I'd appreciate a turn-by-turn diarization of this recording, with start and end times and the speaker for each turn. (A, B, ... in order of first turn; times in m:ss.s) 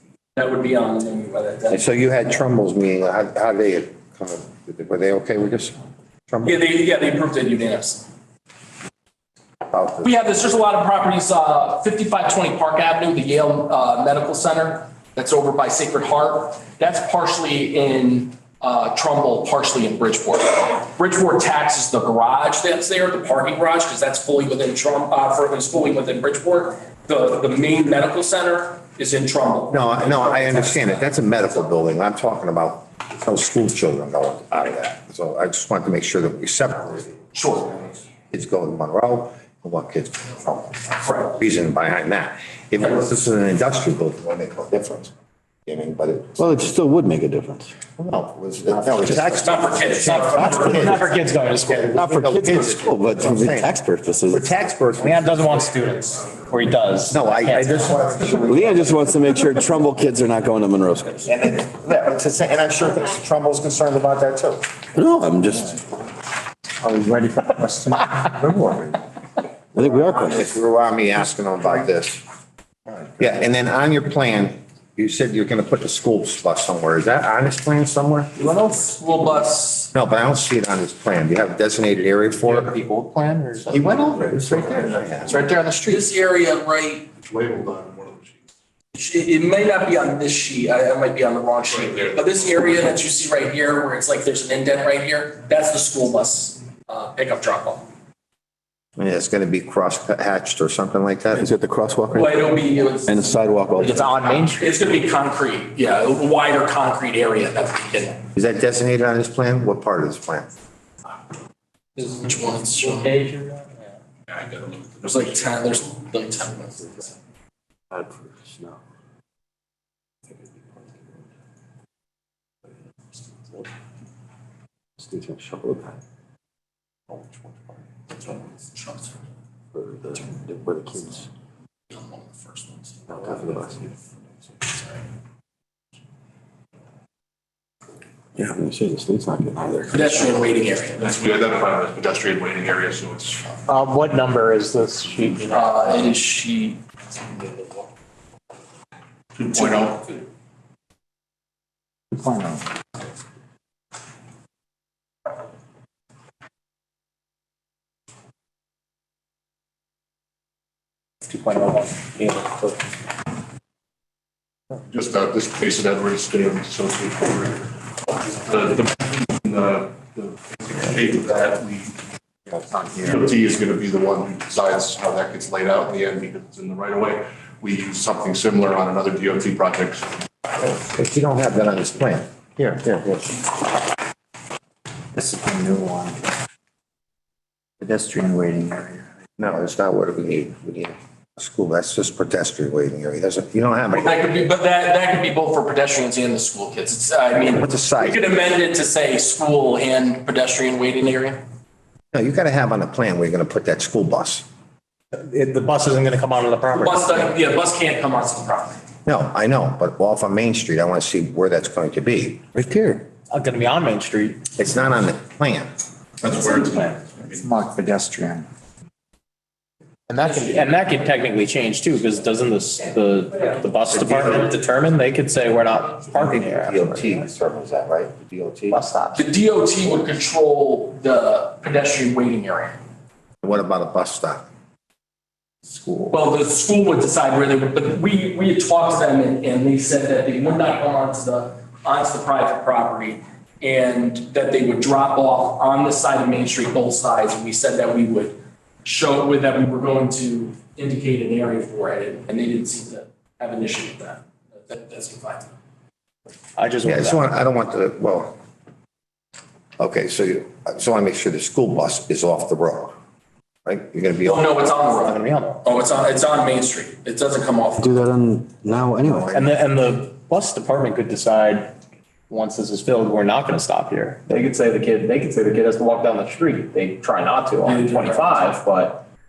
0:00.4-0:01.8 A
0:01.7-0:05.8 B
0:06.3-0:06.6 B
0:06.4-0:08.1 A
0:09.7-0:10.2 B
0:10.0-0:31.1 A
0:29.7-0:37.2 B
0:37.3-0:37.7 A
0:37.8-0:45.1 B
0:41.0-0:41.3 A
0:45.7-0:46.4 B
0:46.4-0:47.7 C
0:48.0-0:51.1 B
0:49.2-0:51.0 A
0:50.0-0:52.6 D
0:51.7-0:53.7 B
0:52.8-0:54.4 C
0:54.3-0:55.6 B
0:55.0-0:58.4 D
0:57.1-0:59.1 B
0:58.4-1:01.2 C
1:01.2-1:04.7 B
1:04.9-1:05.8 C
1:06.8-1:08.8 E
1:08.4-1:08.9 B
1:09.7-1:10.5 C
1:09.8-1:12.2 B
1:13.1-1:18.3 B
1:18.4-1:19.9 A
1:19.9-1:22.8 B
1:22.4-1:24.6 D
1:23.7-1:25.3 B
1:25.2-1:26.0 D
1:25.8-1:27.1 A
1:27.2-1:28.4 F
1:28.9-1:37.8 A
1:31.7-1:32.2 F
1:39.0-1:41.5 B
1:41.3-1:42.4 C
1:42.1-1:43.3 A
1:43.1-1:44.0 C
1:43.8-1:44.8 D
1:43.8-1:48.2 A
1:48.4-1:50.5 B
1:52.0-1:53.2 A
1:52.8-1:54.0 D
1:54.3-1:55.0 F
1:55.0-1:57.1 A
1:57.9-1:58.8 C
2:00.6-2:00.8 C
2:05.0-2:06.0 C
2:08.2-2:09.2 A
2:09.7-2:11.3 C
2:11.9-2:14.0 A
2:13.1-2:13.8 C
2:14.6-2:15.0 A
2:18.4-2:20.3 C
2:19.9-2:21.1 A
2:21.0-2:23.5 F
2:23.6-2:26.1 D
2:25.5-2:26.8 A
2:27.4-2:27.7 A
2:29.4-2:30.2 F
2:29.6-2:29.9 A
2:32.1-2:32.6 E
2:41.3-2:42.8 D
2:44.9-2:52.0 F
2:52.6-2:53.2 E
2:53.0-3:00.1 F
3:00.5-3:03.4 B
3:05.1-3:06.2 E
3:07.8-3:09.0 E
3:09.4-3:14.1 B
3:13.9-3:21.4 A
3:17.4-3:18.2 B
3:22.1-3:24.4 B
3:25.1-3:27.3 D
3:26.7-3:28.8 A
3:29.0-3:33.0 B
3:33.2-3:34.4 D
3:34.6-3:35.7 B
3:36.2-3:37.2 F
3:36.3-3:38.5 E
3:40.1-3:47.1 D
3:46.1-3:48.8 B
3:48.7-3:49.2 D
3:49.1-3:52.8 A
3:53.4-3:54.4 B
3:56.1-4:15.5 A
4:16.6-4:17.2 D
4:16.8-4:18.4 B
4:19.8-4:22.9 B
4:23.6-4:24.8 B
4:24.2-4:27.8 A
4:25.0-4:25.6 D
4:27.8-4:29.3 C
4:29.3-4:31.7 D
4:32.3-4:39.0 D
4:37.6-4:38.6 A